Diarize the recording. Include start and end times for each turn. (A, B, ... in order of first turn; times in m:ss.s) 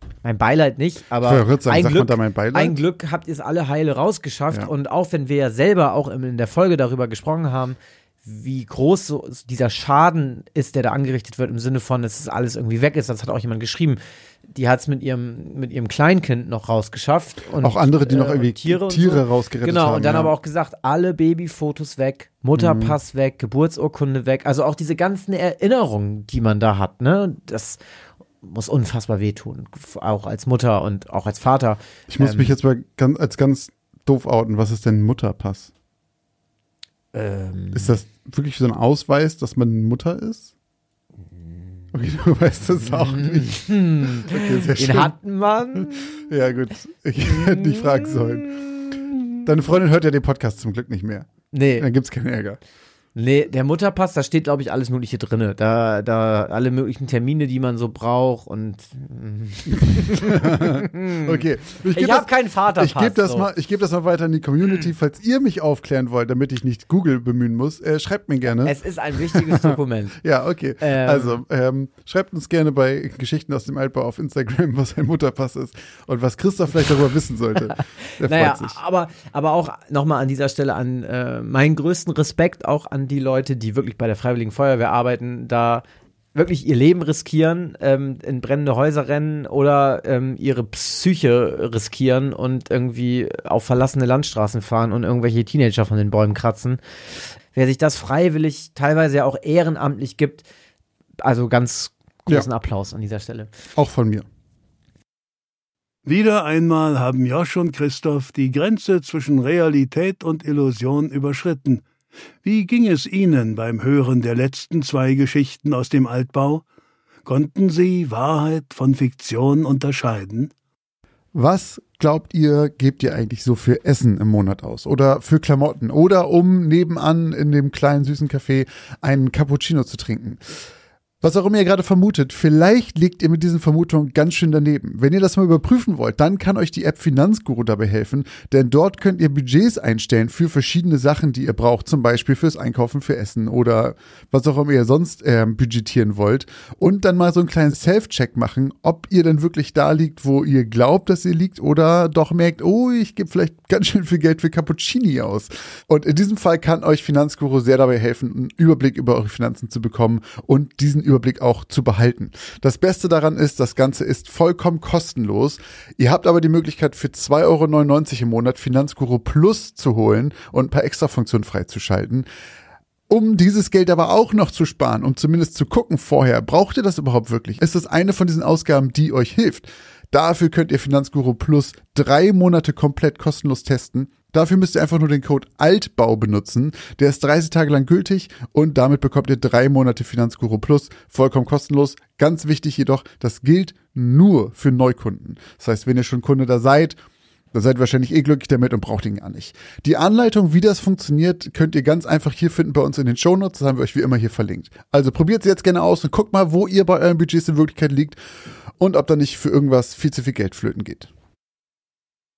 0:00.2-0:27.8 A
0:01.2-0:02.8 B
0:17.6-0:20.3 B
0:22.5-0:23.0 B
0:28.4-0:32.6 A
0:32.1-0:35.7 B
0:37.1-0:38.0 A
0:37.7-0:40.5 B
0:41.9-0:45.1 B
0:42.8-0:46.2 A
0:45.7-0:48.5 B
0:47.3-0:49.2 A
0:49.4-0:52.6 B
0:51.5-0:51.9 A
0:53.1-1:03.5 A
0:59.8-1:18.8 B
1:08.6-1:10.2 A
1:10.8-1:11.4 A
1:17.7-1:25.8 A
1:26.3-1:36.8 A
1:37.5-1:40.4 A
1:41.2-1:43.5 A
1:43.8-1:44.2 B
1:46.0-1:51.8 C
1:52.4-1:56.6 C
1:57.2-2:00.5 C
2:01.3-2:10.6 B
2:11.2-2:52.2 B
2:53.1-3:17.0 B
3:17.5-3:31.1 B